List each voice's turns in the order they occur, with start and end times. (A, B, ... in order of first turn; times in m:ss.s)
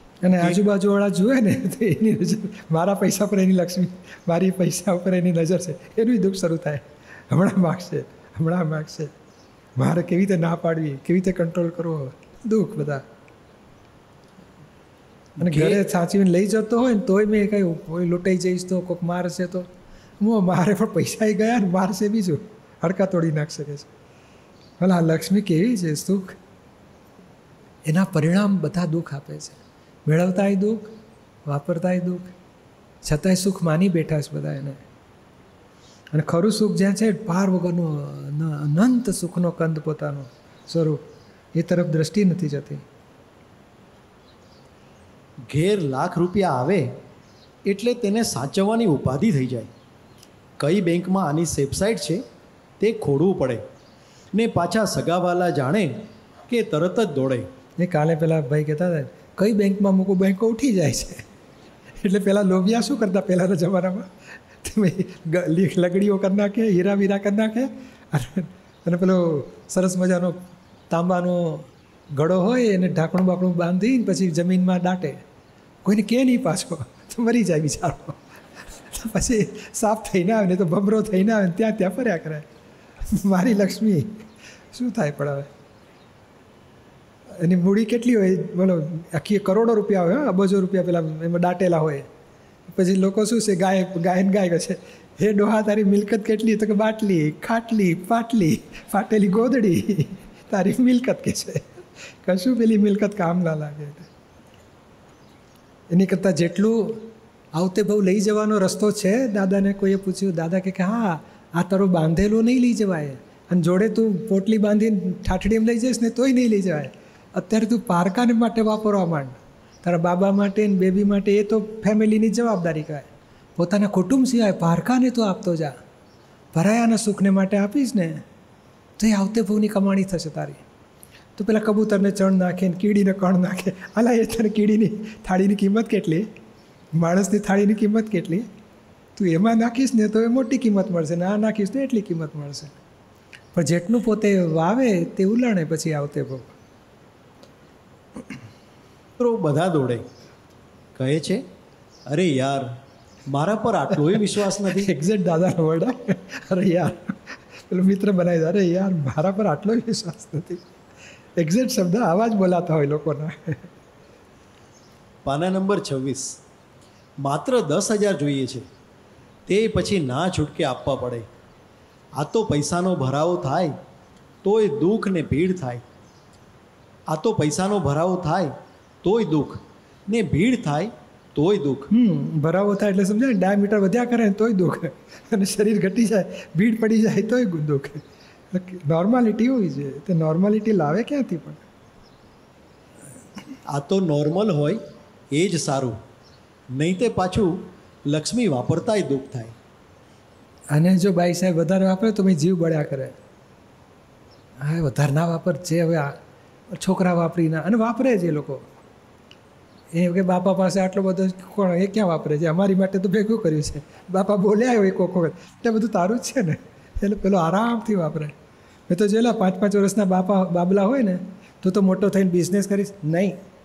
0:00.2-0:09.1 A
0:09.8-0:13.0 A
0:15.4-0:19.7 A
0:15.4-0:15.8 B
0:20.2-0:23.9 A
0:24.8-0:26.4 A
0:27.8-0:30.9 A
0:31.5-0:32.3 A
0:33.0-0:34.8 A
0:36.1-0:42.8 A
0:45.5-0:46.9 B
0:47.6-0:49.7 B
0:50.6-0:52.2 B
0:52.8-0:53.6 B
0:54.3-0:57.5 B
0:57.8-1:01.2 A
1:02.0-1:15.2 A
1:15.8-1:22.5 A
1:23.1-1:25.5 A
1:27.3-1:32.1 A
1:32.7-1:44.1 A
1:45.9-2:05.7 A
2:06.5-2:08.2 A
2:09.0-2:10.6 A
2:11.4-2:16.3 A
2:16.9-2:18.5 A
2:19.2-2:22.7 A
2:23.5-2:26.5 A
2:29.2-2:30.0 B
2:31.0-2:31.4 B
2:32.1-2:32.7 B
2:33.3-2:34.9 B
2:34.5-2:40.6 A
2:41.4-2:43.7 A
2:45.2-2:46.4 B
2:47.2-2:48.6 B
2:49.5-2:51.3 B
2:52.2-2:53.7 B
2:54.4-2:55.8 B
2:57.1-2:58.5 B
2:59.0-3:01.9 B
3:01.9-3:11.6 A
3:13.7-3:14.8 B
3:15.3-3:16.0 B
3:16.7-3:19.5 B
3:20.7-3:23.1 A
3:24.6-3:26.2 A
3:26.7-3:28.6 A
3:29.9-3:38.3 A
3:38.9-3:43.4 A